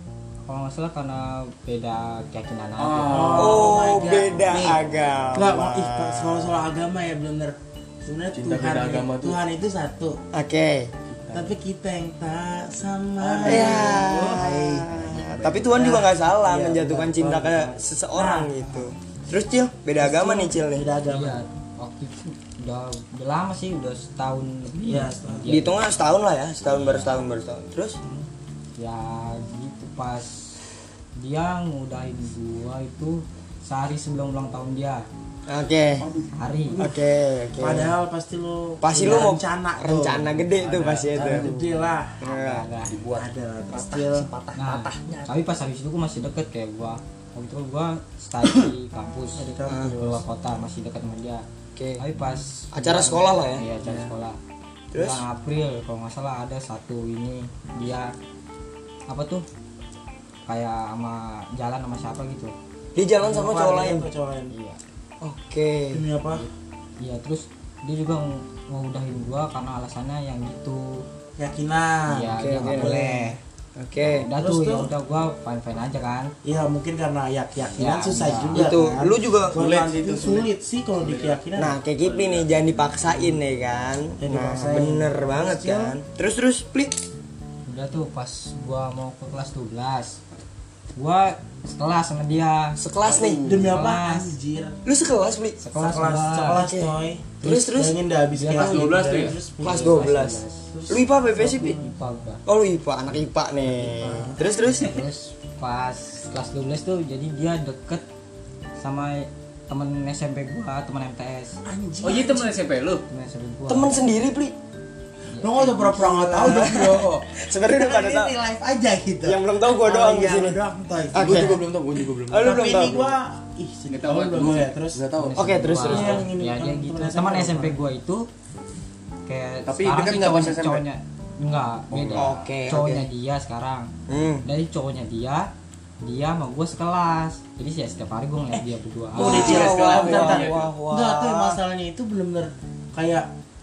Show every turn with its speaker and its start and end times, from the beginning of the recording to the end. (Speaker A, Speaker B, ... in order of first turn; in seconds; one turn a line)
Speaker A: 0.5-3.6
Speaker B: 2.8-3.2
Speaker C: 3.1-4.8
Speaker D: 3.3-6.7
Speaker C: 5.3-10.2
Speaker B: 8.3-9.4
Speaker D: 10.3-10.9
Speaker B: 11.1-11.5
Speaker C: 11.3-14.9
Speaker B: 13.2-14.3
Speaker D: 13.4-20.8
Speaker B: 15.2-15.6
Speaker C: 15.7-18.9
Speaker C: 20.0-21.5
Speaker A: 21.1-25.8
Speaker C: 24.8-25.6
Speaker D: 25.5-28.0
Speaker A: 26.6-27.2
Speaker A: 28.8-30.6
Speaker A: 31.2-35.0
Speaker D: 35.5-36.1
Speaker C: 36.0-37.0
Speaker A: 36.3-36.8
Speaker D: 36.8-37.9
Speaker C: 37.6-42.2
Speaker D: 38.8-41.5
Speaker B: 40.7-41.8
Speaker D: 42.2-42.7
Speaker A: 42.2-43.0
Speaker B: 42.8-43.2
Speaker C: 43.1-45.3
Speaker A: 44.5-51.4
Speaker C: 49.3-50.2
Speaker D: 49.6-49.9
Speaker D: 51.7-52.0
Speaker A: 52.0-54.4
Speaker D: 52.7-53.6
Speaker D: 54.9-55.2
Speaker A: 54.9-58.1
Speaker A: 59.1-59.4
Speaker A: 60.5-62.5
Speaker D: 62.9-64.1
Speaker C: 63.2-64.5
Speaker A: 64.5-64.8
Speaker D: 65.2-66.0
Speaker C: 65.9-66.5
Speaker A: 66.3-71.0
Speaker C: 71.4-73.4
Speaker A: 72.1-73.4
Speaker D: 72.3-73.0
Speaker D: 73.8-74.3
Speaker A: 74.0-76.3
Speaker C: 74.4-74.9
Speaker C: 76.4-81.8
Speaker A: 77.7-78.7
Speaker D: 78.5-79.6
Speaker B: 79.5-80.5
Speaker B: 81.0-81.4
Speaker D: 81.5-87.0
Speaker E: 82.0-82.5
Speaker C: 84.2-86.0
Speaker A: 87.7-90.2
Speaker A: 91.0-92.8
Speaker D: 92.8-93.4
Speaker B: 93.0-93.7
Speaker C: 93.4-94.8
Speaker A: 93.5-94.3
Speaker D: 94.8-95.6
Speaker A: 95.6-96.7
Speaker C: 95.7-100.2
Speaker D: 96.6-98.0
Speaker A: 98.3-100.7
Speaker E: 98.5-99.4
Speaker D: 99.6-101.8
Speaker C: 100.7-102.0
Speaker A: 101.5-102.4
Speaker D: 102.5-105.0
Speaker C: 103.7-104.5
Speaker A: 104.6-108.0
Speaker A: 108.8-111.6
Speaker C: 111.6-112.6
Speaker E: 112.0-113.0
Speaker A: 113.1-114.0
Speaker D: 113.7-114.5
Speaker A: 115.3-116.3
Speaker C: 115.4-121.6
Speaker D: 116.3-118.3
Speaker B: 116.4-117.2
Speaker D: 119.2-120.6
Speaker D: 121.1-121.6
Speaker B: 121.1-123.1
Speaker D: 122.3-123.1
Speaker C: 122.4-125.0
Speaker E: 123.9-124.7
Speaker B: 124.3-125.5
Speaker A: 125.1-128.3
Speaker D: 125.3-126.3
Speaker C: 125.8-127.8
Speaker A: 129.2-133.9
Speaker B: 129.7-130.8
Speaker B: 131.9-132.4
Speaker D: 132.1-133.1
Speaker D: 134.1-134.4
Speaker A: 134.4-135.5
Speaker A: 136.0-139.7
Speaker D: 139.1-141.6
Speaker C: 139.2-143.3
Speaker E: 139.2-140.7
Speaker B: 139.4-139.9